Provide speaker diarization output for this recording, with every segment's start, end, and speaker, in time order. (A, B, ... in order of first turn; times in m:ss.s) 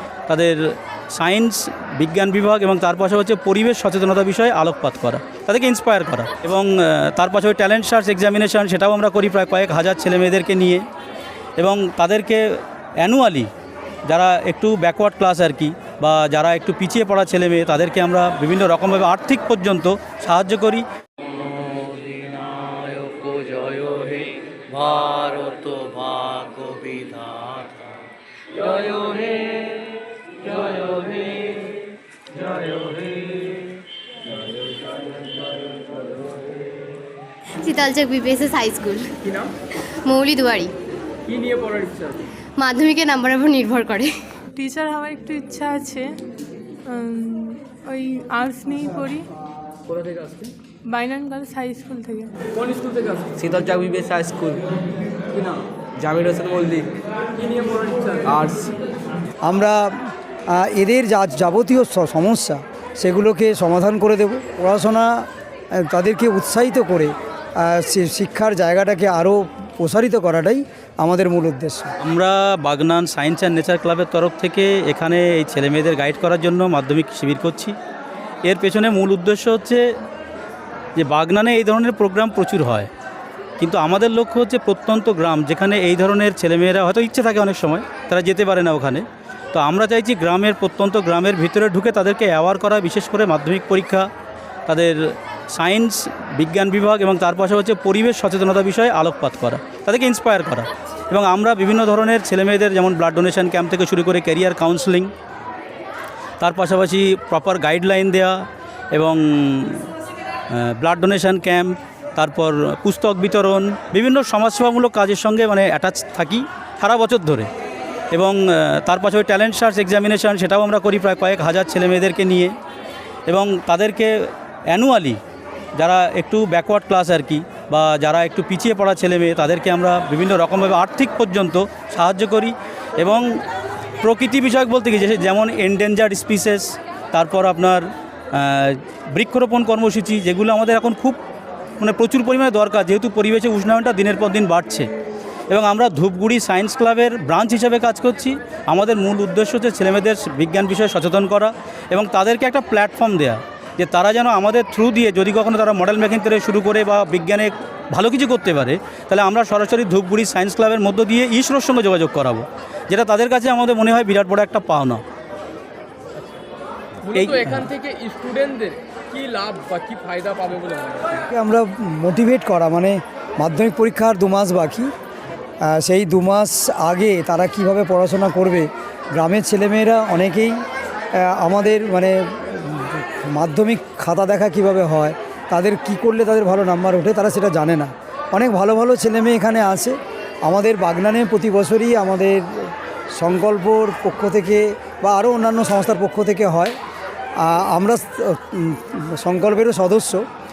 0:00.3-0:00.6 A
0:01.1-0:10.8 A
0:11.6-0:12.4 A
0:13.0-0:13.5 A
0:14.1-0:20.8 A
0:21.5-0:24.2 B
0:24.9-0:27.2 B
0:37.6-0:39.1 C
0:39.2-0:39.5 D
0:40.1-0:40.7 C
0:41.2-0:42.2 D
0:42.6-0:44.1 C
0:44.6-0:46.1 E
0:46.9-0:49.2 E
0:49.9-0:50.5 D
0:50.9-0:52.4 E
0:52.5-0:53.3 D
0:53.4-0:54.6 F
0:55.3-0:55.6 D
0:56.0-0:56.9 F
0:57.4-0:58.6 D
0:58.2-0:58.7 F
0:59.4-0:59.9 G
1:00.5-1:05.3 G
1:05.8-1:11.9 G
1:12.0-1:17.7 A
1:18.4-1:19.8 A
1:21.0-1:22.9 A
1:23.6-1:34.1 A
1:34.7-1:35.0 A
1:35.5-1:45.1 A
1:46.4-1:48.4 A
1:48.9-1:49.9 A
1:50.5-1:57.5 A
1:58.1-2:02.5 A
2:03.3-2:05.2 A
2:05.8-2:13.2 A
2:14.0-2:21.2 A
2:21.8-2:24.9 A
2:25.5-2:45.0 A
2:47.0-2:51.2 D
2:47.1-2:47.7 A
2:51.3-2:54.9 G
2:55.6-3:00.6 G
3:01.2-3:16.8 G
3:17.4-3:20.2 G